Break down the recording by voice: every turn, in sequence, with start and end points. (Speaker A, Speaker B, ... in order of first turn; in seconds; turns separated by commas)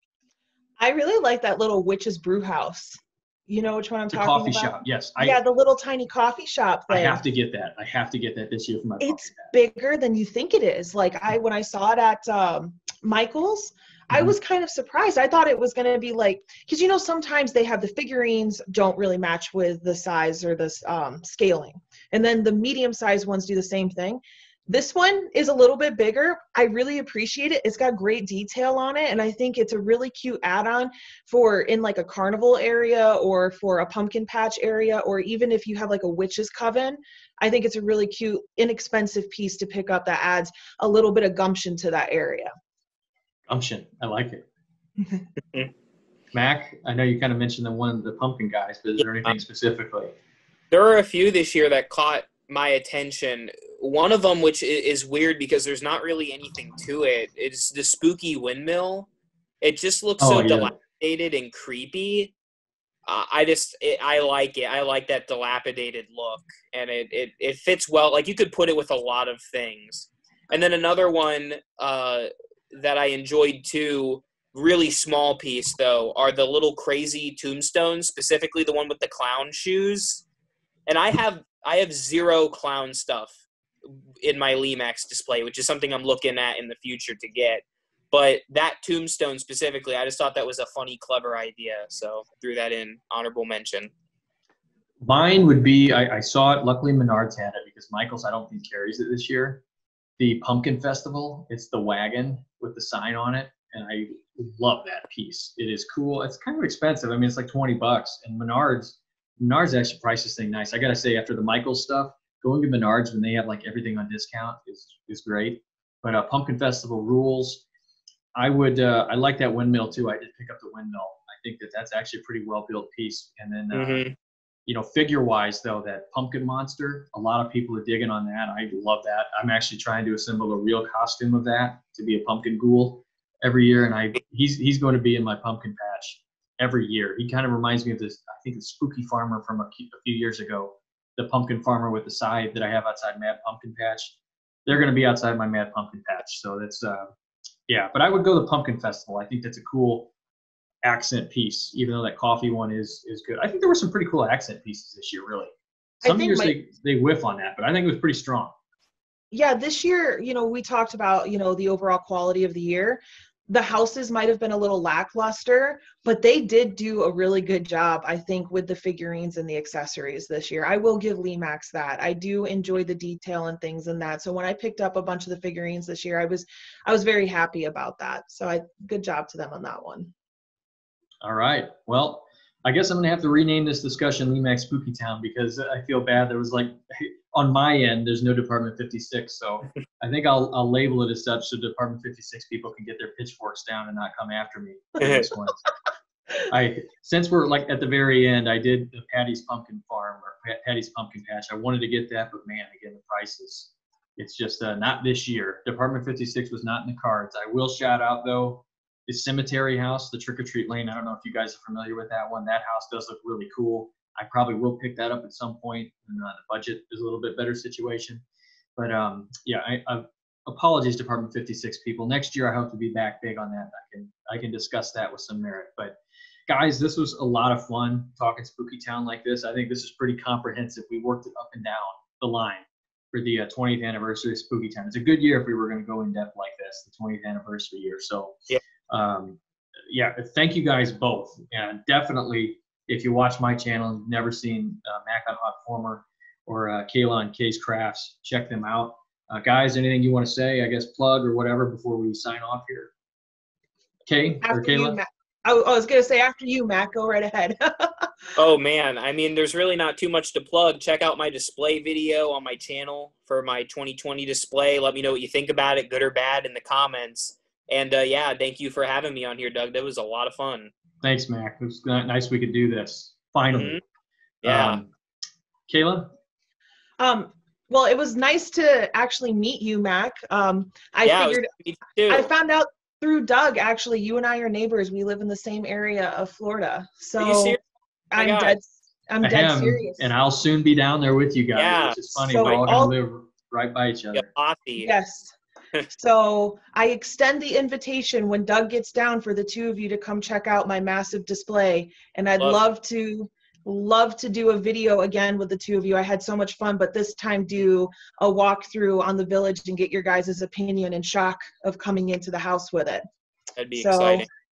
Speaker A: 0.8-7.2, Speaker B: 4.1-5.4, Speaker B: 6.9-9.5, Speaker A: 9.0-42.5, Speaker B: 43.5-44.4, Speaker B: 46.3-50.1, Speaker C: 50.7-59.1, Speaker C: 59.6-62.3, Speaker B: 60.2-60.8, Speaker C: 63.1-80.2, Speaker C: 80.9-93.9, Speaker B: 95.0-99.6, Speaker B: 100.2-117.6, Speaker B: 118.4-124.1, Speaker C: 123.7-124.1, Speaker B: 124.7-147.1, Speaker B: 147.7-150.1, Speaker B: 150.8-155.5, Speaker A: 156.0-156.5, Speaker B: 156.0-158.5, Speaker A: 159.3-180.1, Speaker B: 181.2-195.6, Speaker C: 195.0-195.3, Speaker B: 196.5-218.2, Speaker B: 218.8-226.0, Speaker B: 226.5-238.4, Speaker B: 238.9-252.9, Speaker B: 254.1-255.0, Speaker A: 254.4-258.1, Speaker C: 258.4-270.7, Speaker B: 271.0-273.8, Speaker C: 273.5-273.8, Speaker C: 274.4-274.8, Speaker B: 274.4-274.9, Speaker B: 275.7-276.1, Speaker A: 277.0-281.5, Speaker C: 281.0-282.3, Speaker A: 282.1-287.6, Speaker C: 287.2-287.6, Speaker A: 288.1-290.1, Speaker C: 288.2-288.6, Speaker B: 289.2-294.3, Speaker C: 291.6-292.5, Speaker A: 292.3-292.9, Speaker C: 294.1-294.9, Speaker A: 294.8-295.4, Speaker A: 295.9-313.1, Speaker C: 313.6-314.3, Speaker A: 313.8-314.3